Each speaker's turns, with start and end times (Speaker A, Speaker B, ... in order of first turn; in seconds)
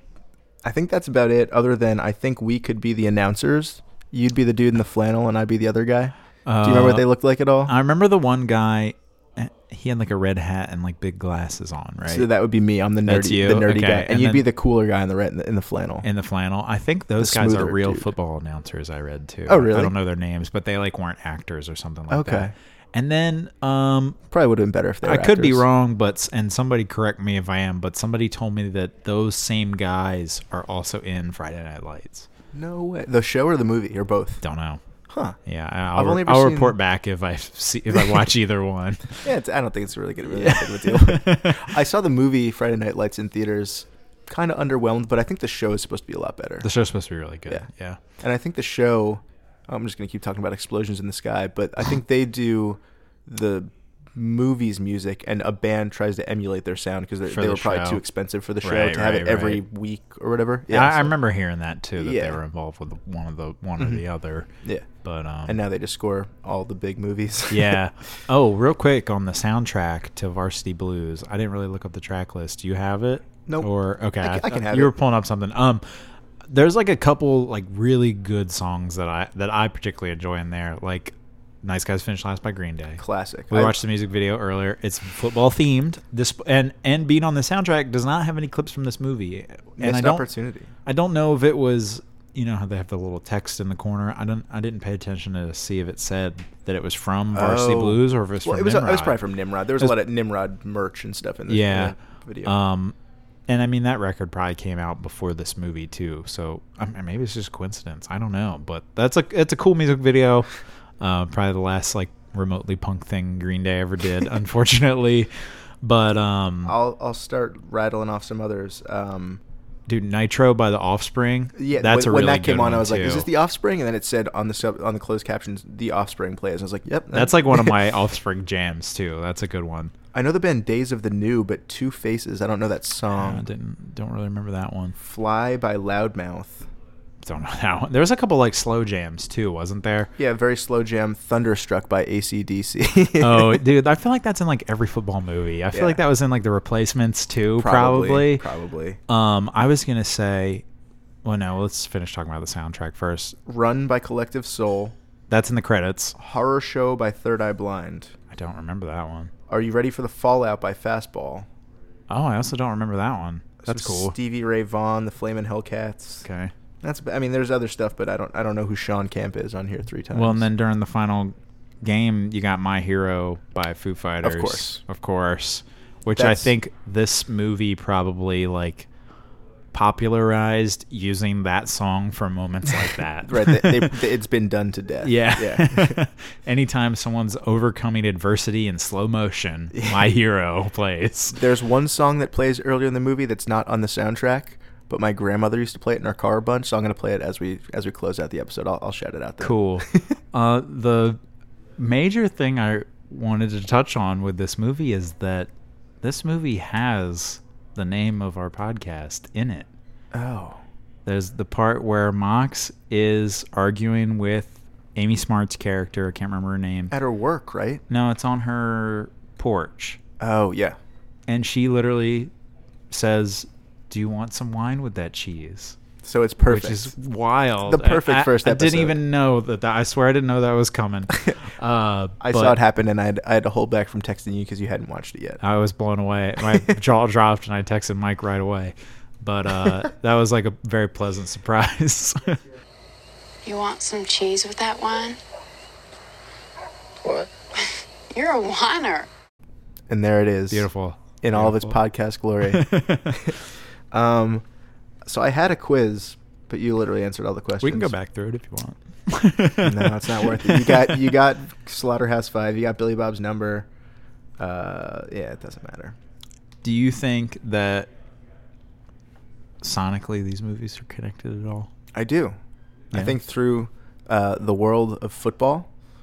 Speaker A: 0.7-7.7, 12.1-16.1, 17.2-18.1, 19.5-19.9, 22.1-22.5, 24.3-25.6, 32.5-34.4, 35.1-35.4, 35.9-36.8, 39.2-46.7, 48.2-61.2, 62.0-62.4, 65.5-67.8, 73.5-74.9, 83.0-83.8, 89.8-90.7, 97.3-102.6, 116.7-119.4, 121.6-127.8, 130.1-133.5, 135.0-136.7, 140.2-143.6, 145.7-146.0, 147.6-149.0, 153.5-154.9, 156.2-158.1, 159.5-161.5, 163.6-166.2, 166.8-170.5, 174.2-174.8, 176.2-176.5, 183.2-186.0, 189.7-190.0, 191.3-200.1, 210.1-210.6, 216.9-217.8, 220.2-220.8, 226.0-226.9, 227.7-229.0, 232.2-235.4, 249.9-250.7, 251.2-253.4, 253.9-254.4, 255.1-257.9, 259.6-263.7, 264.4-266.0, 271.9-272.4, 272.9-275.7
Speaker B: 6.5-7.1, 7.7-12.3, 13.1-14.5, 16.0-24.2, 25.0-32.3, 34.4-34.8, 35.5-39.2, 40.2-41.7, 46.6-48.0, 57.3-58.0, 58.6-59.6, 60.7-64.5, 65.0-65.6, 67.5-90.3, 90.9-99.2, 101.5-103.0, 103.5-110.5, 111.0-116.8, 119.9-123.3, 127.1-129.9, 133.1-135.0, 137.2-140.1, 143.2-148.5, 149.1-150.6, 151.2-153.4, 155.3-156.2, 158.3-159.3, 162.1-164.2, 166.2-166.5, 170.1-178.9, 179.7-184.0, 185.0-191.4, 199.4-201.2, 201.8-205.5, 206.0-209.7, 211.1-216.9, 217.9-220.0, 221.3-222.3, 222.9-225.8, 226.4-232.6, 235.4-242.4, 250.5-251.8, 252.4-253.3, 257.6-261.1, 266.6-267.9, 269.6-271.7
Speaker C: 243.4-245.2, 248.1-249.1